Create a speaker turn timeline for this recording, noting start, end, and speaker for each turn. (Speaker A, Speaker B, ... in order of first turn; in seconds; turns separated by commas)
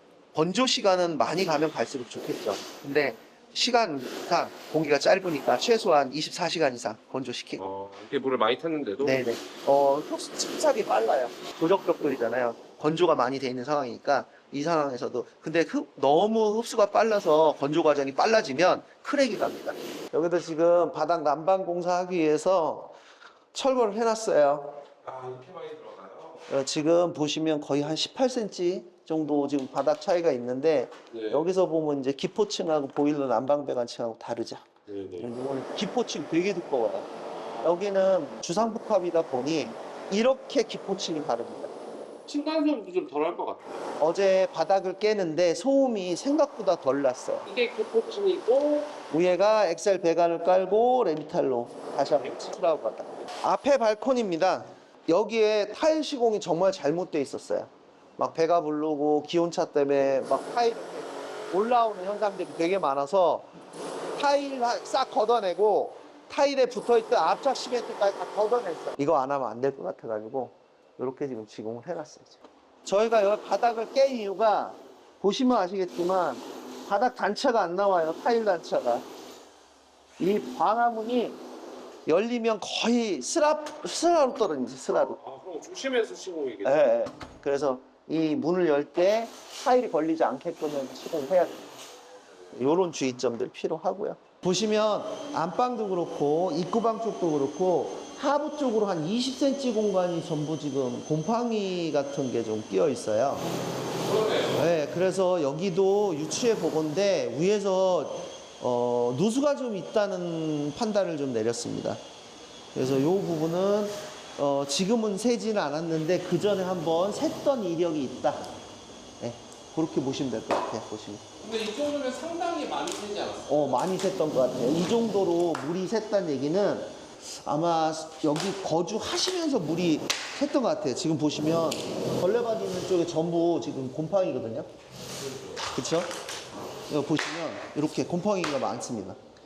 Speaker A: 0.3-7.6, Speaker B: 7.6-9.3, Speaker A: 9.0-22.9, Speaker A: 23.5-24.8, Speaker B: 25.0-26.4, Speaker A: 26.5-34.6, Speaker B: 31.1-31.5, Speaker B: 34.9-35.3, Speaker A: 35.2-37.1, Speaker A: 37.6-41.7, Speaker B: 42.3-43.9, Speaker A: 44.0-47.5, Speaker B: 47.5-48.9, Speaker A: 49.1-63.5, Speaker A: 64.2-79.0, Speaker A: 80.2-81.4, Speaker A: 82.0-85.2, Speaker B: 84.9-86.9, Speaker A: 86.6-91.7, Speaker A: 92.5-103.5, Speaker B: 104.0-104.7, Speaker A: 104.5-112.0, Speaker A: 112.7-118.5, Speaker A: 119.2-121.2, Speaker B: 121.4-123.8, Speaker A: 123.5-134.7, Speaker B: 135.3-135.6, Speaker A: 135.7-136.1, Speaker A: 136.9-139.2